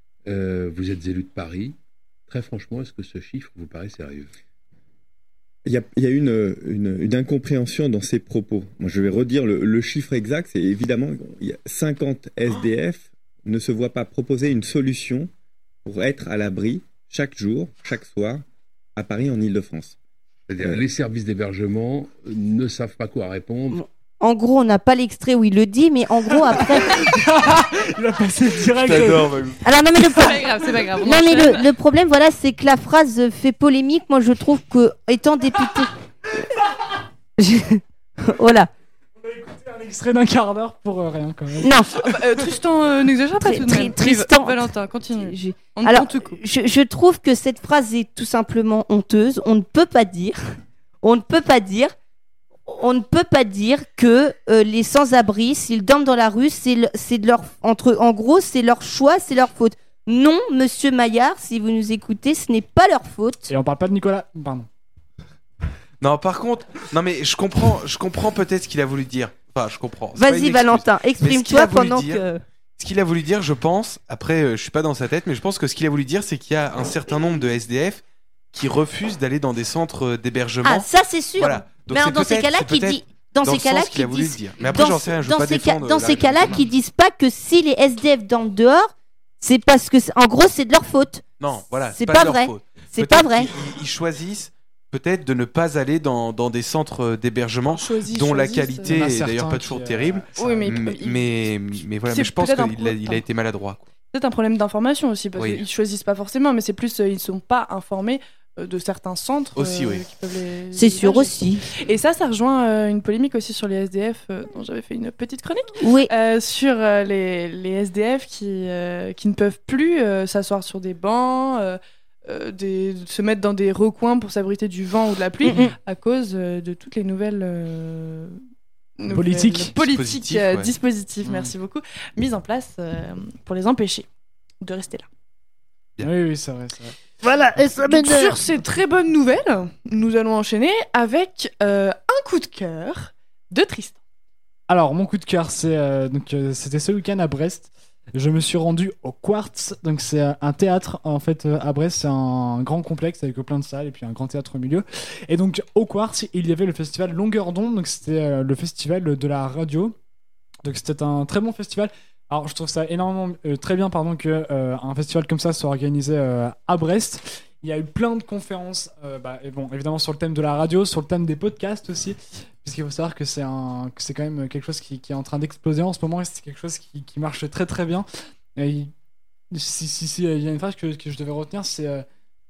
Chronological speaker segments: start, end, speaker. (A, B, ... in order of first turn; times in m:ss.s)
0:00.3-0:04.3 A
0:05.7-0:15.3 B
0:15.8-0:18.4 B
0:19.0-0:20.0 B
0:20.5-0:23.8 A
0:24.2-0:27.0 C
0:26.3-0:29.4 D
0:28.8-0:29.6 E
0:29.6-0:35.9 C
0:30.1-0:31.7 F
0:37.4-0:38.7 C
0:39.2-0:42.1 D
0:41.6-0:41.9 C
0:42.0-0:46.4 F
0:43.4-0:50.4 C
0:51.0-0:51.9 C
0:52.7-1:03.5 C
1:03.5-1:04.7 D
1:06.0-1:12.2 E
1:10.2-1:12.4 C
1:12.8-1:26.7 E
1:20.6-1:28.9 C
1:29.4-1:31.2 C
1:31.4-1:43.9 E
1:31.8-1:33.5 C
1:37.7-1:39.0 F
1:38.8-1:40.9 D
1:40.4-1:41.4 F
1:42.1-1:43.2 F
1:44.1-2:08.4 F
1:45.4-1:45.6 E
1:49.6-1:50.1 E
1:50.7-1:51.6 C
1:55.8-1:56.1 C
2:05.4-2:05.7 C
2:09.0-2:14.1 F
2:09.1-2:09.7 D
2:09.8-2:10.7 E
2:11.2-2:11.5 D
2:14.6-2:15.1 F
2:16.0-2:17.7 D
2:17.3-2:18.4 C
2:17.8-2:24.0 F
2:24.7-2:40.0 D
2:40.6-2:58.9 D
2:59.5-3:02.0 D